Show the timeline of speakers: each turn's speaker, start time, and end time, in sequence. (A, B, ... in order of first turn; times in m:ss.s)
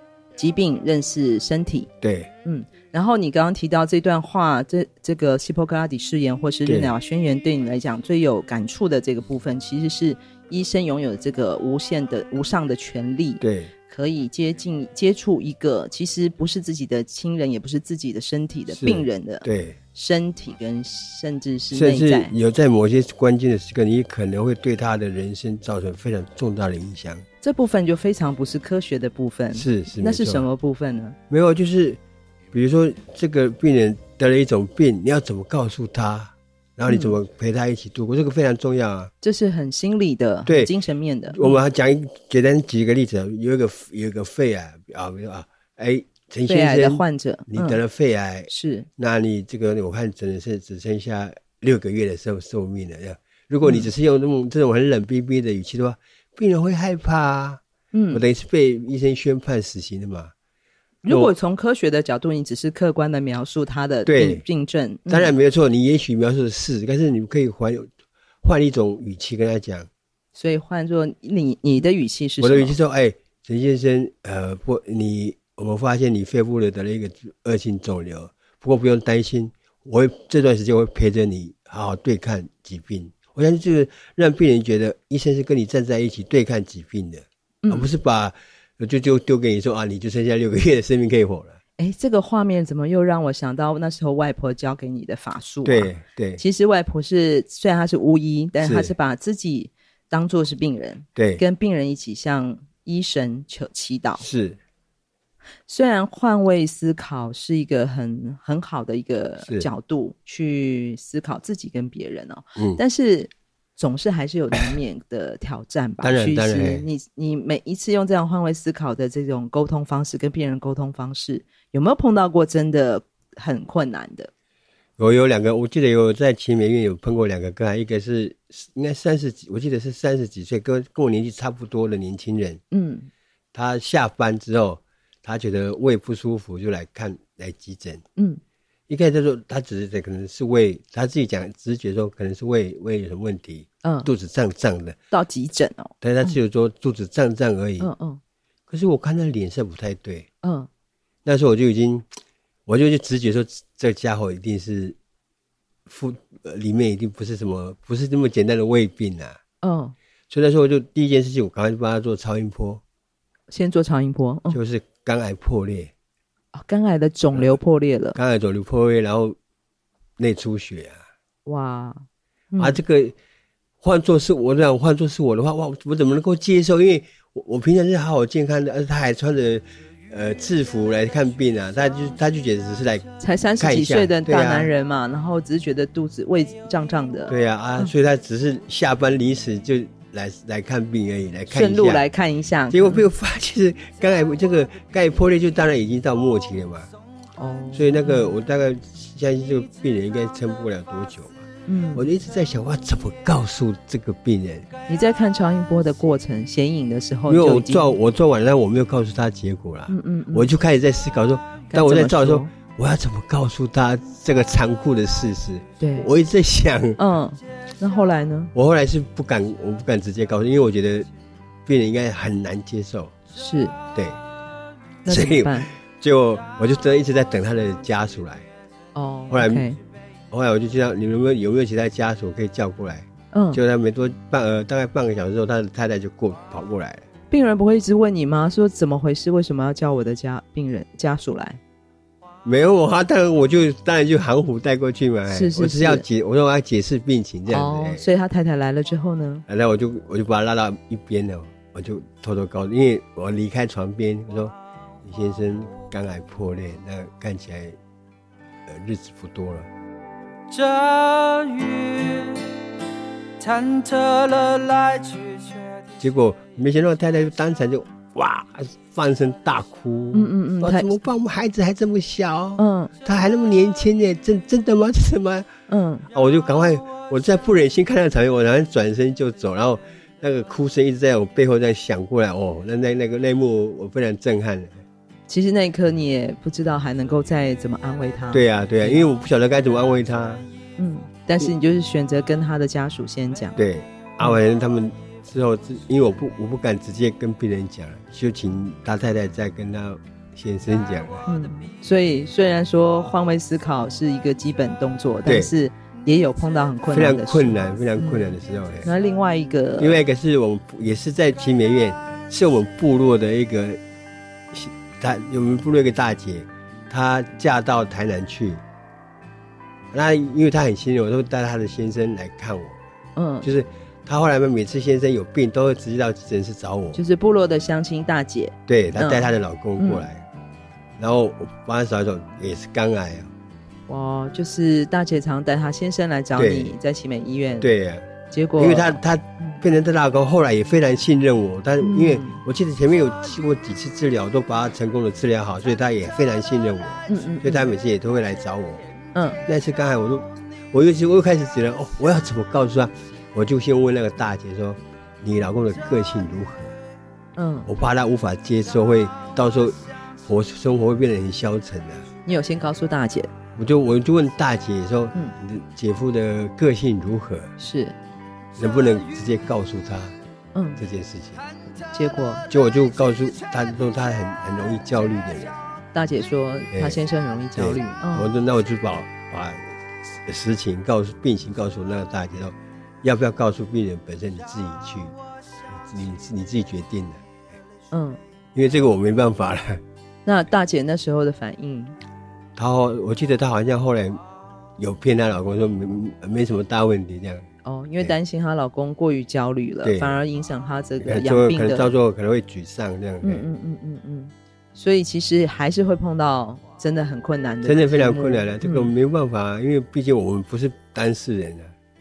0:00.4-0:01.9 A
0:02.0-0:02.3 B
0:02.4-0:22.3 A
0:06.7-0:06.9 B
0:13.4-0:13.7 B
0:18.7-0:19.8 B
0:21.7-0:27.2 B
0:27.4-0:31.2 A
0:29.5-0:30.4 B
0:31.3-0:32.0 B
0:32.5-0:39.1 B
0:36.9-0:37.2 A
0:39.2-0:41.6 A
0:40.5-0:40.7 B
0:41.3-0:57.6 B
0:46.5-0:47.8 A
0:48.5-0:48.9 A
0:53.6-0:53.9 A
0:57.9-0:58.2 A
0:58.1-1:00.3 B
1:01.0-1:05.3 A
1:01.1-1:01.3 B
1:04.1-1:04.4 B
1:05.1-1:07.9 B
1:08.4-1:09.9 B
1:10.4-1:12.8 A
1:12.4-1:31.6 B
1:27.6-1:27.9 A
1:31.8-1:44.2 A
1:35.6-1:36.4 B
1:38.6-1:38.9 B
1:41.2-1:41.4 B
1:44.2-1:44.6 B
1:45.7-2:04.3 A
1:56.0-1:56.9 B
2:05.0-2:12.6 B
2:12.7-2:13.1 A
2:13.5-2:18.0 B
2:18.2-2:18.4 A
2:18.9-2:25.0 B
2:23.8-2:24.1 A
2:25.1-2:26.4 A
2:26.0-2:27.9 B
2:27.8-2:28.2 A
2:28.7-2:30.3 B
2:30.4-2:30.7 A
2:31.2-2:32.1 B
2:32.7-2:35.0 B
2:35.9-2:39.4 B
2:39.6-2:40.0 A
2:40.3-2:42.8 B
2:43.5-2:44.6 A
2:44.5-2:45.9 B
2:46.5-2:48.2 A
2:48.2-2:49.4 B
2:50.2-2:51.0 B
2:51.4-2:52.8 A
2:52.6-2:53.2 B
2:53.8-3:04.7 B
3:03.2-3:07.9 A
3:07.3-3:12.0 B
3:11.5-3:13.1 A
3:12.7-3:16.9 B
3:17.4-3:18.3 A
3:17.7-3:24.7 B
3:21.7-3:22.1 A
3:24.9-3:27.9 A
3:27.3-3:37.0 B
3:29.9-3:30.5 A
3:31.7-3:32.5 A
3:35.8-3:36.1 A
3:37.0-3:38.5 A
3:38.5-3:41.1 B
3:41.7-3:43.1 B
3:43.4-3:43.8 A
3:45.0-3:45.7 A
3:45.1-3:48.5 B
3:49.0-3:49.8 A
3:49.3-3:49.7 B
3:50.3-3:57.1 B
3:53.3-3:53.6 A
3:57.3-4:01.6 A
4:02.4-4:08.0 B
4:05.3-4:06.0 A
4:07.5-4:09.5 A
4:09.5-4:17.8 B
4:18.7-4:19.7 B
4:20.5-4:22.5 C
4:23.4-4:25.8 C
4:26.0-4:35.5 B
4:30.1-4:30.9 A
4:32.6-4:32.9 A
4:35.7-4:36.1 A
4:36.1-4:44.8 B
4:45.3-4:49.1 A
4:48.3-4:50.5 B
4:50.8-4:53.6 A
4:53.6-5:01.2 B
5:01.3-5:10.0 A
5:05.3-5:05.5 B
5:06.9-5:08.9 B
5:09.8-5:13.8 B
5:14.5-5:18.6 B
5:19.9-5:22.8 B
5:23.2-5:23.5 A
5:23.4-5:27.0 B
5:26.9-5:30.1 A
5:28.7-5:30.2 B
5:31.0-5:33.3 B
5:33.9-5:37.7 A
5:36.4-5:36.8 B
5:37.6-5:38.1 B
5:38.3-5:39.6 A
5:38.6-5:48.8 B
5:41.8-5:42.4 A
5:47.1-5:47.7 A
5:49.2-5:49.4 A
5:49.5-5:56.8 B
5:57.4-5:57.7 A
5:57.7-6:02.1 B
6:02.3-6:03.3 A
6:03.6-6:07.5 B
6:07.6-6:08.0 A
6:08.6-6:10.2 B
6:10.6-6:10.8 A
6:10.8-6:11.4 B
6:11.9-6:12.4 A
6:12.5-6:15.6 B
6:15.9-6:18.3 A
6:16.7-6:17.0 B
6:17.6-6:25.1 B
6:25.7-6:27.2 B
6:27.9-6:28.2 A
6:28.6-6:29.8 B
6:30.2-6:32.0 A
6:32.6-6:34.2 B
6:34.8-6:37.5 B
6:37.6-6:41.9 A
6:39.8-6:40.2 B
6:41.0-6:43.4 B
6:43.2-6:48.9 A
6:47.6-6:51.7 B